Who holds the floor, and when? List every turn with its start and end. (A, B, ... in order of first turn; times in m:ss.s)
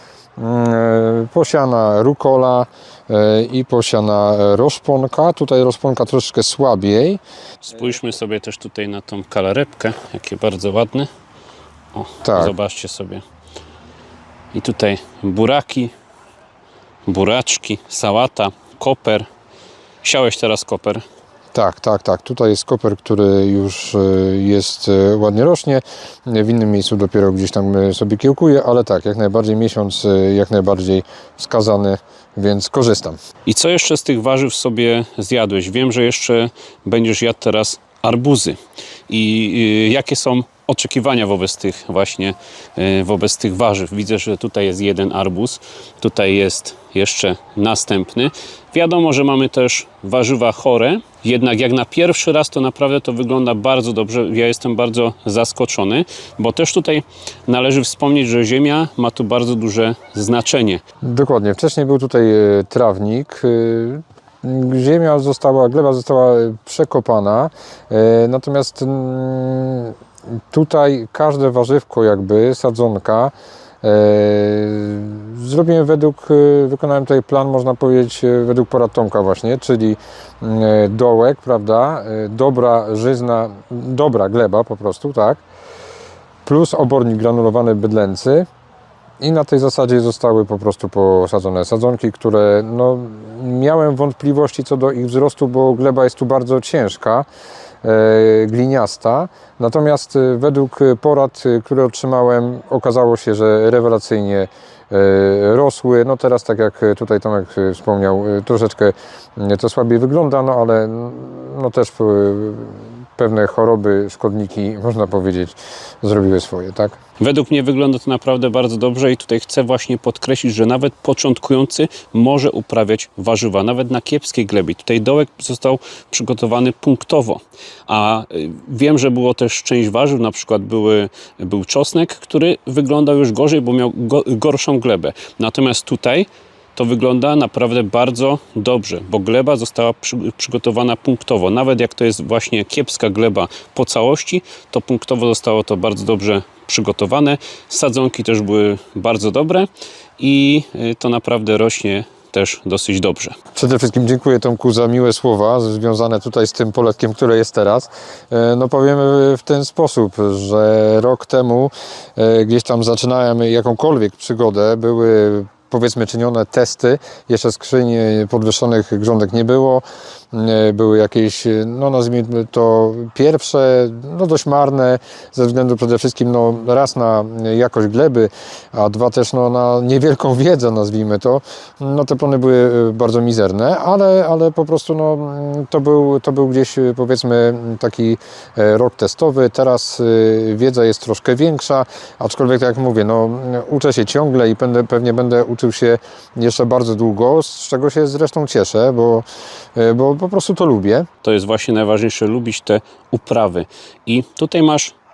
0:00.4-0:07.2 A
0:07.7-0:11.1 B
0:11.9-0:13.2 B
0:12.2-0:12.5 A
0:14.5-0:15.9 B
0:17.0-0:19.2 B
0:20.0-0:21.0 B
0:21.5-0:33.2 A
0:33.4-0:38.6 B
0:39.1-1:00.8 B
1:01.0-1:09.9 A
1:10.5-1:25.4 A
1:26.4-1:28.5 A
1:29.2-1:37.2 A
1:37.8-1:57.0 A
1:57.2-2:29.7 B
2:30.2-2:33.4 B
2:33.6-3:21.1 A
3:21.2-3:24.9 B